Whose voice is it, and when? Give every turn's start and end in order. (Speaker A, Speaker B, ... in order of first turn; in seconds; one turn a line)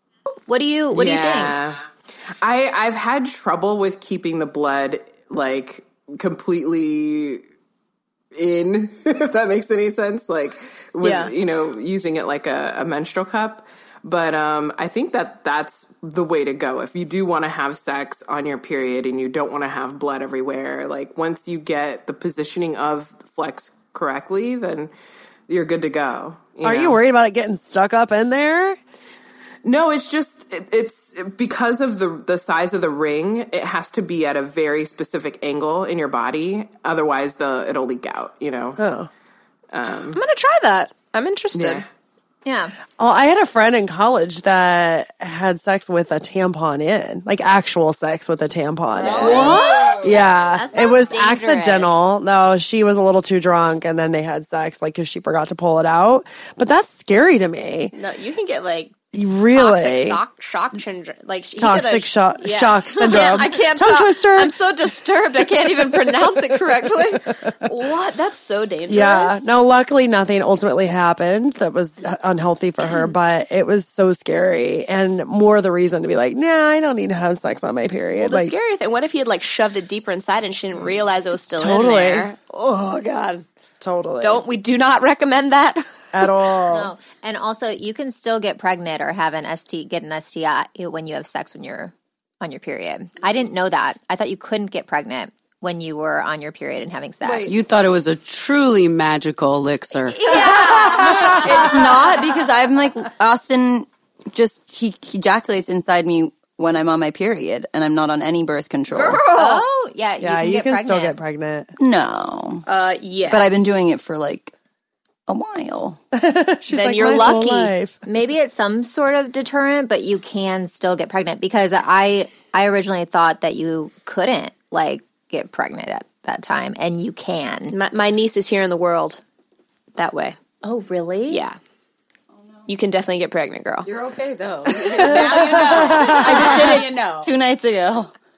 Speaker A: 0.5-1.6
Speaker B: 0.9-1.9
Speaker B: 2.4-7.4
Speaker B: 8.3-24.9
Speaker C: 11.0-11.3
Speaker B: 25.5-27.0
Speaker D: 26.6-28.8
Speaker B: 29.6-38.8
Speaker D: 38.8-39.1
Speaker B: 39.7-40.2
Speaker C: 40.1-41.9
Speaker B: 41.5-41.9
Speaker A: 42.5-42.8
Speaker D: 43.0-57.9
Speaker C: 48.9-50.3
Speaker A: 49.0-51.9
Speaker E: 49.3-49.9
Speaker C: 57.9-58.9
Speaker D: 59.1-60.2
Speaker C: 59.5-69.5
Speaker D: 61.6-64.6
Speaker D: 65.8-66.2
Speaker D: 68.9-78.5
Speaker C: 78.2-83.5
Speaker D: 81.6-82.3
Speaker D: 83.8-84.4
Speaker C: 84.2-86.3
Speaker D: 86.1-86.9
Speaker A: 86.7-97.6
Speaker E: 97.5-100.2
Speaker A: 100.2-102.1
Speaker C: 100.3-101.4
Speaker F: 100.8-109.3
Speaker C: 108.9-109.7
Speaker A: 109.2-111.2
Speaker D: 110.2-111.7
Speaker F: 111.8-112.7
Speaker C: 112.7-113.7
Speaker F: 113.3-114.5
Speaker F: 115.3-116.0
Speaker D: 116.1-118.0
Speaker C: 116.7-117.7
Speaker A: 118.0-127.8
Speaker C: 127.7-129.2
Speaker C: 130.0-130.4
Speaker A: 130.6-131.4
Speaker C: 131.3-131.6
Speaker C: 132.7-133.9
Speaker E: 133.8-137.3
Speaker C: 134.8-136.8
Speaker F: 136.3-138.1